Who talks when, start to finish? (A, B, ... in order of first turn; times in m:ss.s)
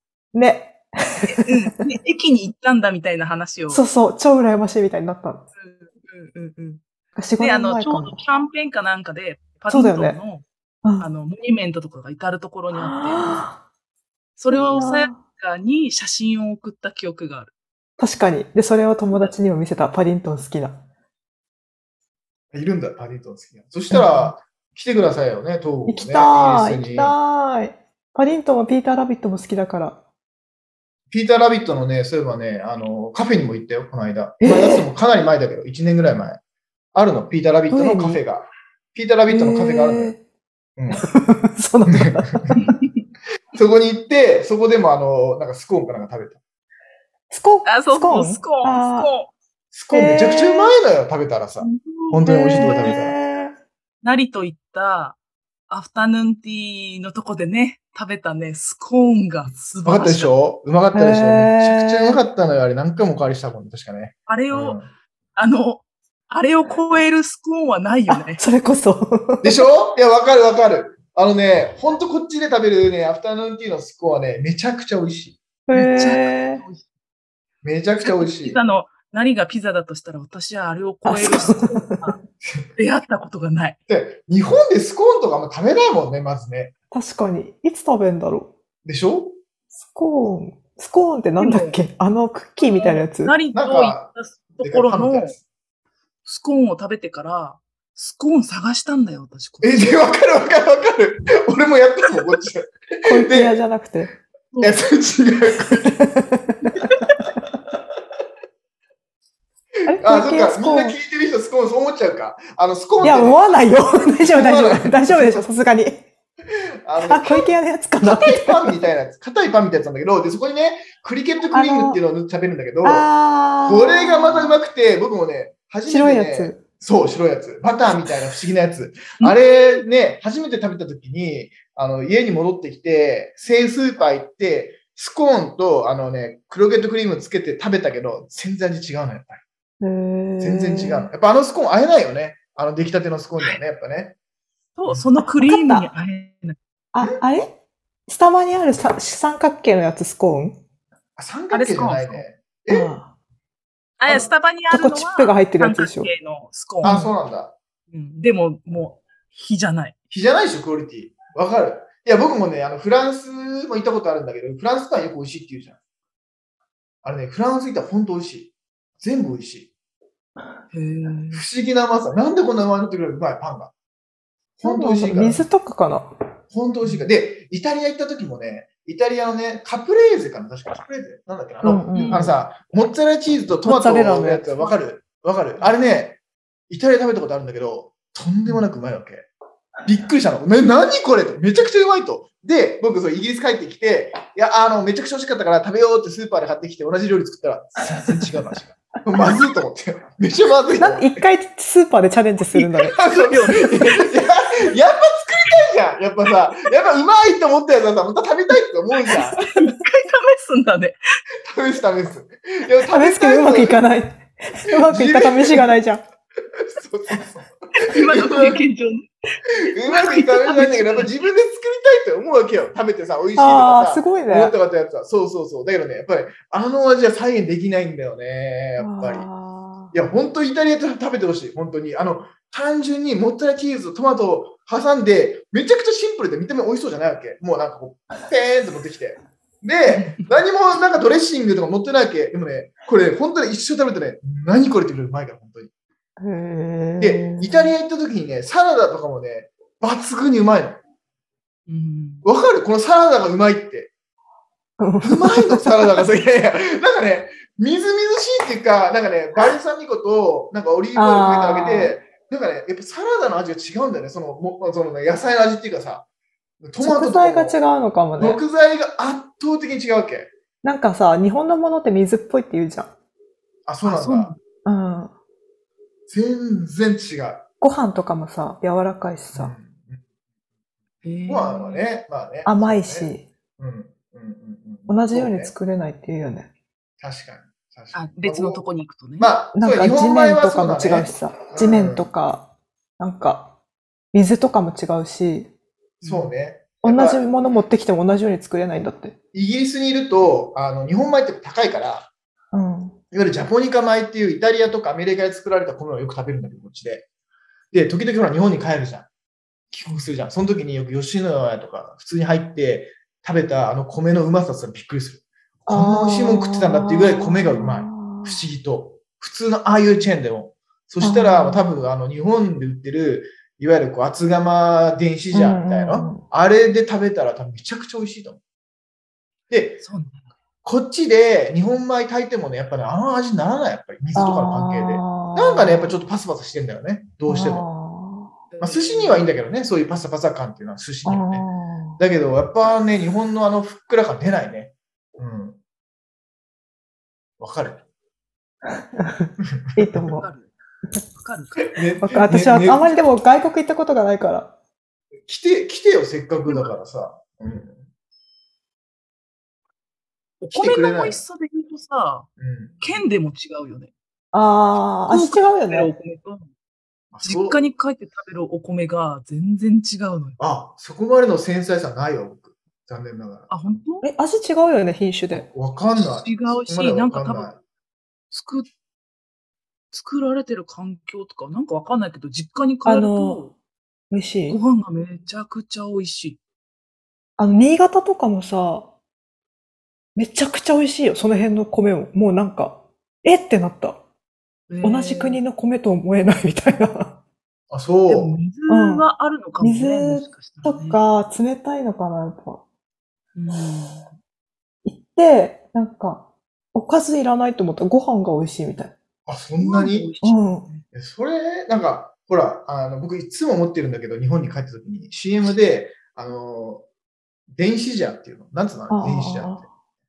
0:00.3-0:01.9 A
0:01.3-0:03.8 B
0:03.7-0:05.4 A
0:05.6-0:06.8 B
0:07.2-0:08.2 A
0:07.4-0:10.4 B
0:09.7-0:10.2 A
0:11.0-0:13.4 B
0:12.7-0:13.6 A
0:14.4-0:17.5 B
0:14.5-0:15.2 A
0:18.0-0:20.8 A
0:22.5-0:27.2 C
0:23.9-0:24.2 A
0:25.8-0:30.0 A
0:31.1-0:36.4 C
0:34.4-0:34.8 A
0:36.9-0:40.1 C
0:37.7-0:38.2 A
0:39.3-0:40.2 A
0:40.8-0:41.1 C
0:40.9-0:42.7 A
0:41.9-0:42.6 C
0:42.6-0:42.9 B
0:43.5-0:46.4 C
0:47.3-0:49.1 A
0:47.6-0:49.3 B
0:49.7-0:53.2 C
0:49.9-0:50.8 A
0:51.6-0:53.0 B
0:52.2-0:53.5 A
0:54.0-0:55.2 B
0:55.7-1:00.3 B
0:59.8-1:04.9 C
1:00.9-1:02.2 A
1:04.3-1:04.8 B
1:05.4-1:08.4 B
1:08.1-1:09.6 A
1:09.4-1:15.4 C
1:15.7-1:16.6 A
1:15.7-1:16.8 B
1:17.6-1:18.6 C
1:18.0-1:22.2 B
1:21.0-1:22.2 A
1:22.8-1:23.8 B
1:23.9-1:26.7 C
1:26.9-1:28.5 A
1:28.8-1:29.3 C
1:29.8-1:33.3 A
1:31.4-1:31.8 B
1:32.6-1:35.4 B
1:33.5-1:35.4 C
1:36.2-1:39.9 B
1:39.6-1:43.6 C
1:43.0-1:44.1 A
1:44.5-1:44.8 B
1:44.6-1:46.1 C
1:45.8-1:46.8 A
1:49.8-1:51.0 A
1:49.9-1:55.5 C
1:53.0-1:56.0 A
1:56.8-2:03.1 C
1:57.0-1:58.8 A
2:01.5-2:02.0 A
2:02.8-2:04.6 A
2:03.6-2:19.4 C
2:05.9-2:06.6 A
2:19.8-2:21.1 A
2:20.4-2:24.2 C
2:24.8-2:26.6 B
2:25.2-2:25.9 A
2:26.9-2:27.5 A
2:28.1-2:30.6 A
2:31.2-2:32.9 C
2:31.5-2:32.2 B
2:32.7-2:33.1 A
2:34.0-2:37.0 B
2:34.7-2:36.1 A
2:36.8-2:37.1 A
2:36.8-2:37.5 C
2:37.9-2:39.9 B
2:40.1-2:45.8 C
2:47.0-2:49.7 C
2:50.7-2:51.4 B
2:51.3-2:53.7 C
2:54.6-2:55.4 C
2:54.6-2:56.1 A
2:56.5-3:06.2 C
3:01.6-3:02.3 A
3:01.9-3:02.3 B
3:03.6-3:04.6 A
3:06.7-3:09.3 C
3:09.8-3:21.2 C
3:20.8-3:23.0 A
3:22.8-3:29.5 C
3:22.9-3:24.1 B
3:29.1-3:31.0 B
3:31.4-3:33.8 C
3:32.9-3:36.0 A
3:34.8-3:35.7 C
3:36.5-3:38.6 C
3:37.8-3:41.1 B
3:39.7-3:49.3 C
3:43.4-3:44.5 A
3:48.8-3:49.9 A
3:49.9-4:05.7 C
3:59.9-4:00.3 B
4:06.2-4:07.7 A
4:07.0-4:10.8 C
4:11.7-4:12.2 B
4:12.2-4:13.9 C
4:14.8-4:15.9 A
4:15.0-4:26.0 C
4:20.9-4:22.0 A
4:26.6-4:27.6 C
4:26.8-4:28.4 A
4:28.2-4:30.3 C
4:30.6-4:32.9 A
4:33.7-4:34.3 C
4:33.8-4:34.4 B
4:34.6-4:35.1 A
4:36.1-4:37.4 C
4:37.6-4:39.5 A
4:39.3-4:40.0 C
4:41.0-4:41.8 B
4:41.3-4:45.5 C
4:42.4-4:43.2 A
4:44.9-4:46.5 A
4:47.0-4:48.6 C
4:47.9-4:49.3 B
4:49.2-4:52.1 C
4:49.5-4:52.5 A
4:53.0-4:53.5 A
4:54.1-4:55.5 A
4:56.0-4:56.3 B
4:56.0-4:57.6 C
4:56.8-4:59.1 A
4:59.3-5:02.1 C
5:02.5-5:03.0 A
5:03.1-5:07.0 C
5:07.7-5:09.1 C
5:09.7-5:28.4 C
5:15.6-5:18.4 A
5:21.0-5:21.6 A
5:25.3-5:26.2 A
5:29.5-5:29.8 C
5:29.8-5:30.3 B
5:30.6-5:37.7 C
5:34.1-5:35.9 A
5:37.3-5:38.3 A
5:38.5-5:39.3 B
5:38.6-5:41.5 C
5:41.0-5:42.0 A
5:42.0-5:45.6 C
5:47.4-5:47.8 C
5:49.0-5:50.3 A
5:49.5-5:50.0 C
5:50.1-5:50.5 B
5:51.1-5:51.8 B
5:51.7-5:52.9 C
5:52.0-5:54.5 A
5:55.3-5:57.8 C
6:00.4-6:02.3 B
6:00.5-6:01.2 C
6:02.4-6:02.8 C
6:02.8-6:03.9 B
6:04.3-6:05.9 A
6:05.1-6:06.5 B
6:07.1-6:07.6 C
6:07.2-6:10.4 B
6:10.4-6:13.5 C
6:13.5-6:14.0 B
6:14.0-6:15.5 A
6:15.5-6:17.6 C
6:16.0-6:17.5 B
6:18.3-6:18.7 B
6:19.9-6:23.5 B
6:22.8-6:23.4 A
6:24.1-6:24.6 A
6:24.5-6:26.4 B
6:27.4-6:28.9 A
6:30.2-6:34.0 A
6:34.7-6:35.4 B
6:34.8-6:37.2 A
6:37.7-6:38.3 C
6:38.1-6:41.0 B
6:38.7-6:39.0 A
6:39.6-6:42.6 A
6:43.3-6:44.1 B
6:44.8-6:48.9 A
6:49.2-6:50.1 C
6:49.6-6:50.8 B
6:50.2-6:50.7 A
6:50.9-6:56.8 C
6:57.5-6:59.6 C
6:58.9-6:59.6 A